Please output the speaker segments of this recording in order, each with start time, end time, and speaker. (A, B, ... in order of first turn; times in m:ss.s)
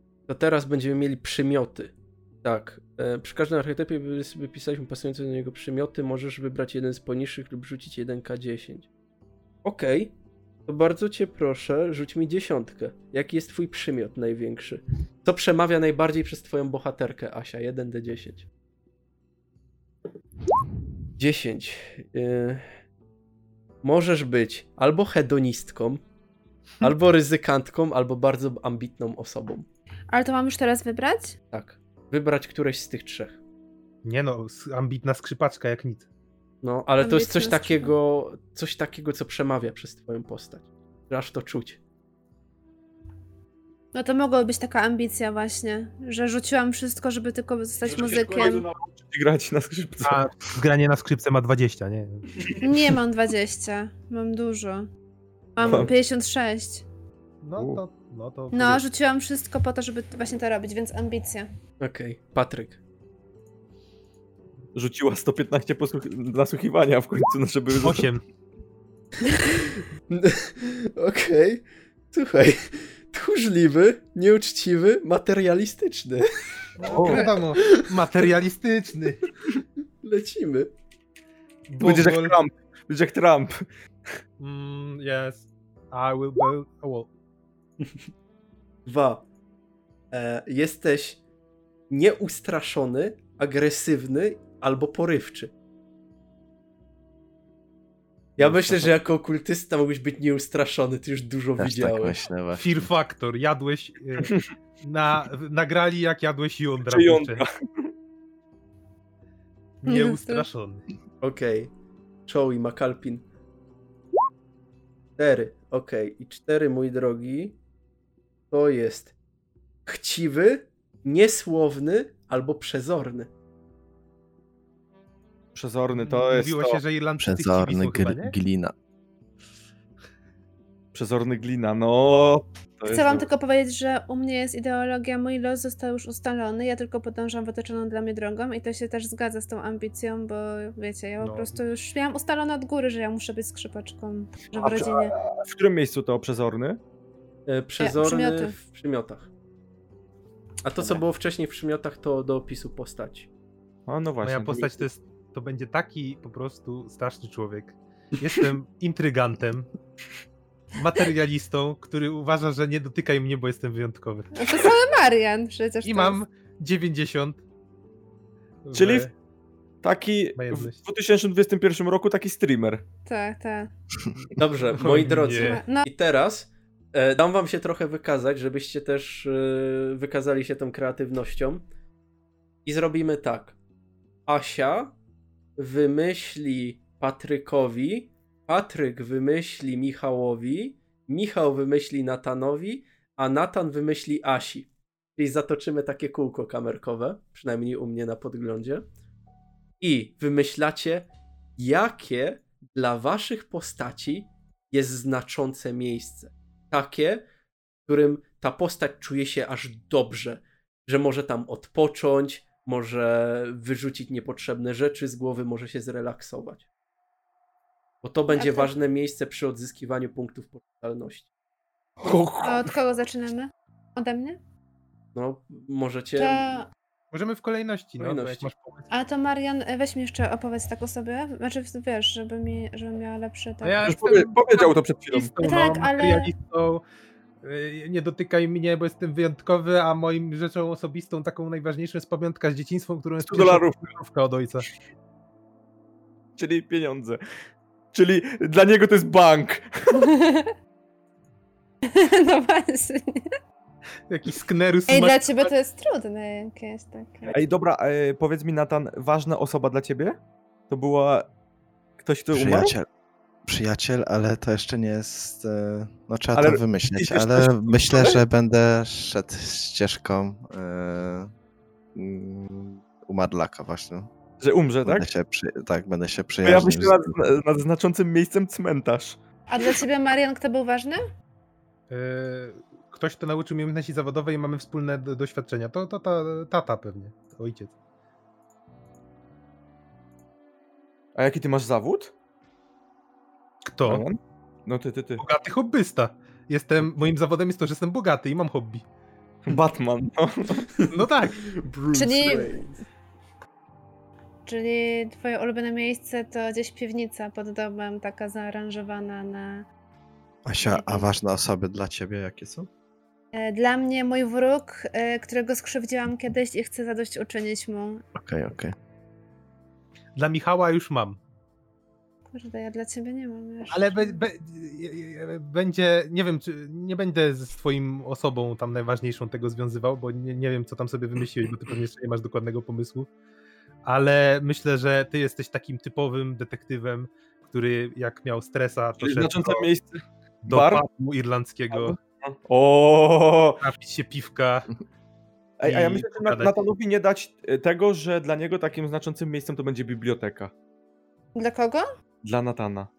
0:00.3-0:01.9 A
0:02.4-0:08.9 A
0:09.6-0:10.1 A
0:10.7-0:18.5 A
0:21.2-0:22.7 A
0:23.8-0:26.0 A
0:26.8-0:29.7 A
0:30.1-0:31.4 B
0:31.5-0:33.4 A
0:34.0-0:36.1 C
0:36.6-0:41.8 A
0:37.0-0:37.9 B
0:43.9-0:48.7 B
0:47.8-0:50.2 D
0:50.0-0:52.3 C
0:52.6-0:54.9 B
0:55.6-0:56.8 B
0:55.6-0:55.9 D
0:57.4-0:58.8 C
0:58.5-1:01.5 B
1:01.8-1:02.8 A
1:04.7-1:08.1 D
1:07.8-1:08.2 C
1:09.3-1:16.3 A
1:16.8-1:19.3 C
1:16.8-1:18.1 A
1:16.9-1:17.2 D
1:20.0-1:20.7 A
1:21.7-1:22.4 C
1:21.8-1:23.7 D
1:24.4-1:27.1 C
1:28.9-1:29.2 A
1:30.1-1:31.2 A
1:31.9-1:35.5 A
1:38.4-1:42.2 A
1:38.4-1:38.9 E
1:41.6-1:42.9 E
1:42.6-1:47.4 C
1:44.2-1:44.4 D
1:46.9-1:47.9 D
1:49.8-1:50.9 C
1:49.8-1:50.5 B
1:51.2-1:51.7 A
1:52.3-1:53.2 A
1:55.2-1:57.6 A
1:58.5-1:59.1 A
1:59.9-2:03.3 A
2:05.6-2:06.8 D
2:05.9-2:08.3 C
2:07.2-2:08.7 E
2:10.9-2:13.3 D
2:12.9-2:25.1 B
2:21.2-2:21.6 C
2:24.5-2:26.8 D
2:27.5-2:29.3 A
2:27.8-2:28.6 B
2:30.6-2:33.3 A
2:33.9-2:34.8 D
2:34.2-2:39.7 C
2:40.8-2:44.6 C
2:44.3-2:46.2 B
2:45.8-2:47.4 C
2:48.6-2:49.1 C
2:48.7-2:49.1 D
2:49.8-2:52.8 D
2:50.4-2:50.8 C
2:53.0-2:53.7 B
2:54.2-2:55.6 C
2:54.4-3:01.6 A
2:55.3-2:55.9 B
3:02.6-3:03.6 A
3:04.3-3:04.9 A
3:05.6-3:18.8 A
3:19.8-3:27.2 A
3:27.9-3:36.7 A
3:38.0-3:41.3 A
3:38.3-3:38.7 B
3:42.0-3:42.7 D
3:42.4-3:44.4 B
3:45.2-3:46.4 A
3:46.2-3:46.7 B
3:47.1-3:48.9 C
3:48.0-3:48.5 A
3:48.9-3:53.9 B
3:53.6-3:56.8 C
3:53.8-3:55.3 D
3:55.4-3:56.3 B
3:57.4-4:04.7 C
4:03.2-4:03.8 D
4:06.4-4:07.2 D
4:07.9-4:10.1 D
4:10.0-4:10.5 B
4:11.9-4:13.3 B
4:14.1-4:15.5 C
4:14.9-4:17.4 B
4:17.3-4:20.2 D
4:20.7-4:21.3 D
4:22.0-4:22.7 D
4:22.3-4:22.9 E
4:23.5-4:31.3 E
4:26.4-4:28.2 D
4:32.0-4:34.1 E
4:34.4-4:35.1 D
4:34.8-4:37.2 E
4:36.4-4:39.2 D
4:39.5-4:41.0 B
4:41.9-4:47.7 C
4:51.2-4:52.1 D
4:53.7-4:54.0 C
4:53.9-4:55.2 D
4:55.2-4:58.8 C
4:59.5-5:00.8 D
5:00.9-5:01.4 C
5:01.4-5:02.8 A
5:01.9-5:02.5 B
5:04.5-5:09.6 B
5:10.5-5:12.7 E
5:10.6-5:11.1 B
5:13.3-5:18.0 B
5:18.2-5:18.7 E
5:20.2-5:21.2 C
5:22.3-5:24.2 B
5:23.7-5:33.1 C
5:33.8-5:39.7 C
5:39.0-5:40.8 D
5:40.4-5:42.0 C
5:41.7-5:43.6 D
5:43.6-5:44.7 C
5:45.6-5:50.5 D
5:45.6-5:46.6 C
5:51.4-5:51.8 B
5:52.2-5:52.9 D